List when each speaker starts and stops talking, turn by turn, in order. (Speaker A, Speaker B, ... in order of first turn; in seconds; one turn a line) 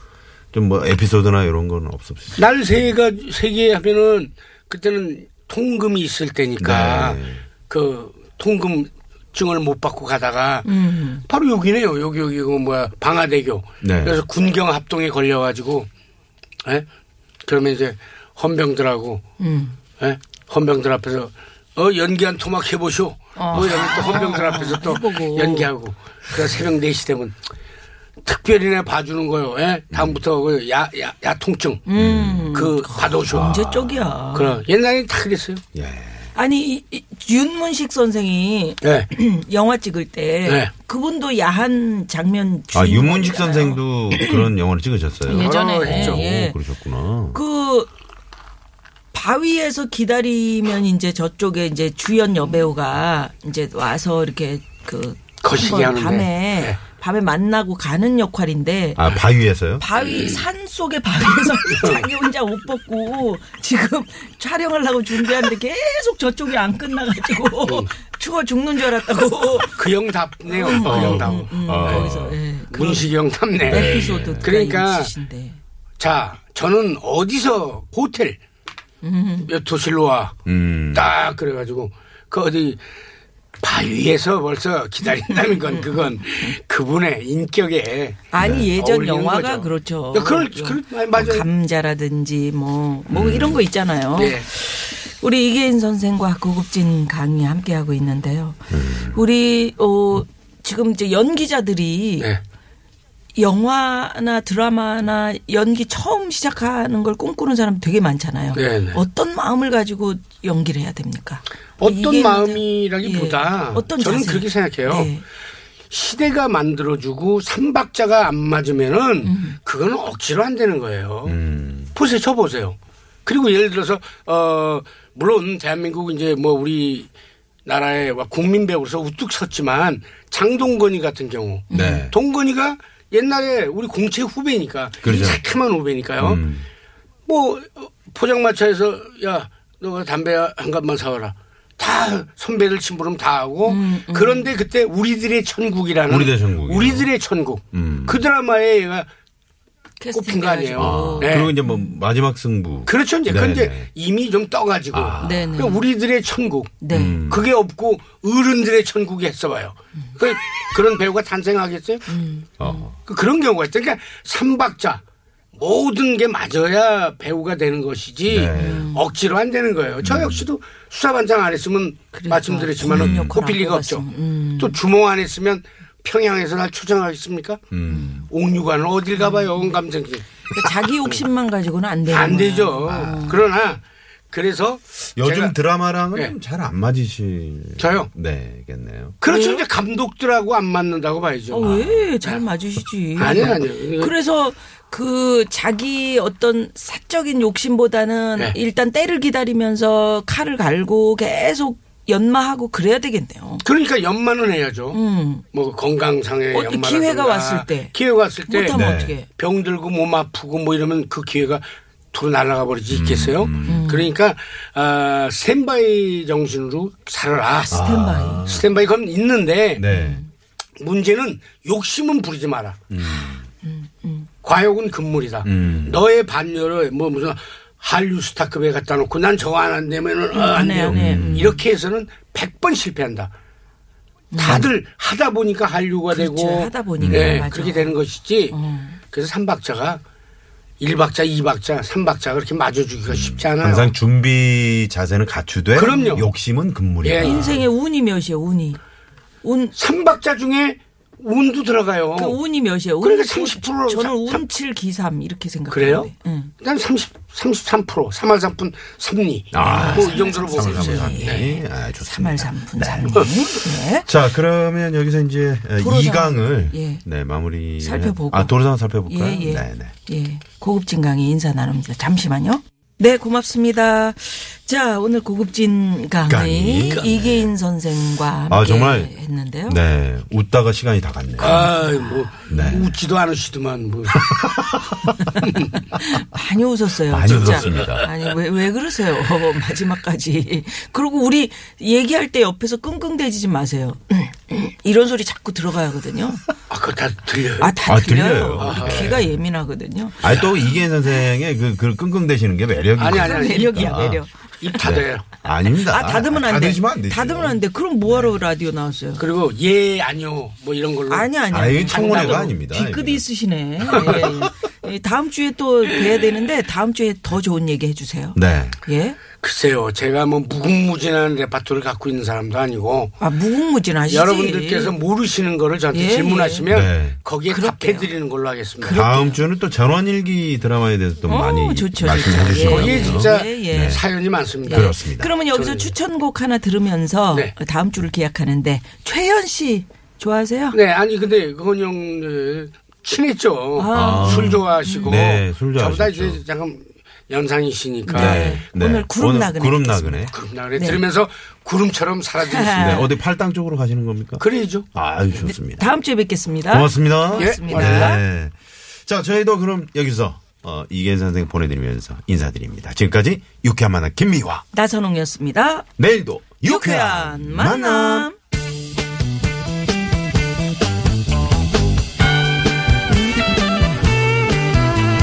Speaker A: 0.5-2.4
Speaker B: 2.4-15.9
Speaker A: 6.6-7.4
Speaker C: 10.6-11.2
Speaker A: 13.8-14.2
Speaker B: 17.4-19.2
Speaker C: 19.4-19.8
Speaker B: 20.0-27.4
Speaker C: 23.4-25.7
Speaker B: 28.2-31.9
Speaker A: 29.9-30.2
Speaker C: 31.9-34.6
Speaker A: 31.9-32.5
Speaker B: 32.5-33.6
Speaker A: 33.3-34.2
Speaker B: 34.3-35.6
Speaker A: 35.7-36.3
Speaker C: 36.3-44.4
Speaker B: 38.8-39.1
Speaker B: 40.4-40.7
Speaker A: 42.7-47.4
Speaker C: 45.2-46.6
Speaker B: 45.3-46.2
Speaker C: 47.3-47.9
Speaker C: 49.1-59.0
Speaker B: 55.4-56.8
Speaker A: 59.0-59.8
Speaker C: 59.8-69.9
Speaker B: 60.0-60.4
Speaker B: 61.6-62.1
Speaker B: 67.6-67.9
Speaker B: 69.5-75.1
Speaker C: 70.5-73.1
Speaker A: 70.8-72.4
Speaker A: 73.6-74.5
Speaker C: 73.7-75.6
Speaker B: 76.0-78.4
Speaker C: 79.0-79.5
Speaker B: 79.4-80.4
Speaker A: 80.5-81.1
Speaker B: 80.9-82.8
Speaker B: 83.6-91.5
Speaker C: 85.2-86.5
Speaker C: 88.3-102.3
Speaker A: 88.4-88.7
Speaker A: 93.1-93.6
Speaker B: 94.1-94.5
Speaker A: 98.7-99.2
Speaker C: 103.4-115.2
Speaker B: 108.5-109.0
Speaker B: 111.8-115.2
Speaker B: 115.9-121.4
Speaker C: 119.2-119.5
Speaker A: 121.2-121.9
Speaker B: 121.9-127.1
Speaker B: 127.6-136.5
Speaker C: 131.7-132.1
Speaker A: 131.7-132.1
Speaker A: 135.0-135.4
Speaker A: 136.2-136.7
Speaker B: 137.3-149.1
Speaker C: 143.7-144.5
Speaker A: 146.1-147.1
Speaker A: 147.7-148.2
Speaker C: 150.0-151.9
Speaker B: 150.1-151.6
Speaker A: 150.8-153.9
Speaker B: 152.8-162.1
Speaker A: 154.9-155.6
Speaker C: 155.2-155.8
Speaker C: 156.8-157.2
Speaker A: 156.9-157.5
Speaker C: 162.1-162.8
Speaker A: 162.6-162.9
Speaker B: 163.0-165.0
Speaker B: 165.6-174.1
Speaker A: 168.3-168.8
Speaker C: 168.5-169.0
Speaker A: 170.0-170.4
Speaker C: 172.1-174.8
Speaker A: 172.9-173.3
Speaker B: 174.6-177.6
Speaker A: 177.7-178.3
Speaker C: 177.9-178.2
Speaker B: 178.3-181.2
Speaker C: 179.2-179.8
Speaker C: 180.5-183.4
Speaker B: 182.1-185.6
Speaker A: 185.1-189.2
Speaker B: 187.8-188.1
Speaker B: 189.2-191.7
Speaker C: 189.2-189.6
Speaker C: 191.5-203.6
Speaker A: 191.6-192.1
Speaker B: 193.2-194.1
Speaker B: 203.6-205.0
Speaker C: 204.9-205.4
Speaker B: 205.5-217.7
Speaker C: 206.5-207.9
Speaker C: 208.5-209.3
Speaker A: 208.7-209.1
Speaker A: 212.9-213.8
Speaker C: 213.7-214.1
Speaker C: 217.5-218.5
Speaker A: 217.7-218.7
Speaker B: 218.4-219.8
Speaker A: 219.8-220.2
Speaker C: 219.9-220.3
Speaker B: 220.8-222.8
Speaker A: 222.9-223.4
Speaker C: 223.0-224.3
Speaker B: 224.4-233.3
Speaker A: 225.4-226.0
Speaker C: 230.3-231.6
Speaker A: 230.9-231.6
Speaker C: 234.3-234.7
Speaker B: 234.3-238.6
Speaker A: 234.4-234.7
Speaker C: 236.1-238.0
Speaker A: 237.0-237.4
Speaker C: 238.5-239.0
Speaker B: 239.1-240.0
Speaker B: 240.8-243.9
Speaker A: 243.1-247.6
Speaker B: 245.7-246.3
Speaker C: 245.9-246.2
Speaker B: 247.0-247.6
Speaker C: 247.2-248.8
Speaker C: 249.4-249.8
Speaker B: 249.7-252.4
Speaker C: 252.1-256.5
Speaker B: 253.0-254.5
Speaker B: 255.7-256.1
Speaker B: 256.6-261.5
Speaker A: 259.5-263.5
Speaker C: 259.6-264.1
Speaker B: 263.1-263.4
Speaker A: 264.0-269.9
Speaker C: 265.8-267.0
Speaker C: 267.8-279.8
Speaker A: 276.3-277.2
Speaker B: 276.9-277.5
Speaker A: 278.5-279.1
Speaker A: 279.7-281.7
Speaker B: 281.4-284.3
Speaker C: 281.4-282.6
Speaker A: 282.5-282.9
Speaker A: 284.2-285.1
Speaker C: 285.2-296.5
Speaker B: 285.4-285.7
Speaker A: 287.1-288.1
Speaker B: 287.2-288.3
Speaker B: 296.7-297.8
Speaker C: 297.6-300.4
Speaker A: 297.8-299.3
Speaker B: 298.6-299.2
Speaker A: 300.2-304.2
Speaker B: 303.0-304.0
Speaker C: 303.1-304.9
Speaker B: 304.6-305.3
Speaker A: 304.8-308.4
Speaker C: 305.6-309.2
Speaker B: 309.2-312.5
Speaker C: 311.1-319.2
Speaker A: 311.5-313.2
Speaker A: 313.9-314.5
Speaker B: 313.9-314.3
Speaker A: 318.3-318.8
Speaker B: 319.4-323.2
Speaker C: 323.2-324.9
Speaker B: 324.1-329.0
Speaker C: 325.9-326.7
Speaker A: 326.7-327.2
Speaker C: 327.5-328.1
Speaker C: 328.8-329.4
Speaker A: 328.9-334.0
Speaker C: 331.2-334.0
Speaker B: 332.2-335.0
Speaker A: 334.6-335.3
Speaker C: 334.7-340.8
Speaker B: 335.5-335.9
Speaker B: 340.7-348.6
Speaker C: 343.8-345.2
Speaker A: 343.9-346.4
Speaker C: 348.1-351.0
Speaker A: 348.1-350.3
Speaker B: 350.3-353.0
Speaker C: 352.4-353.1
Speaker A: 352.8-354.4
Speaker B: 354.4-354.9
Speaker A: 354.9-355.9
Speaker C: 355.4-358.2
Speaker A: 356.7-358.5
Speaker B: 357.3-358.2
Speaker A: 359.1-364.6
Speaker C: 364.7-365.9
Speaker A: 366.0-368.3
Speaker C: 366.6-368.4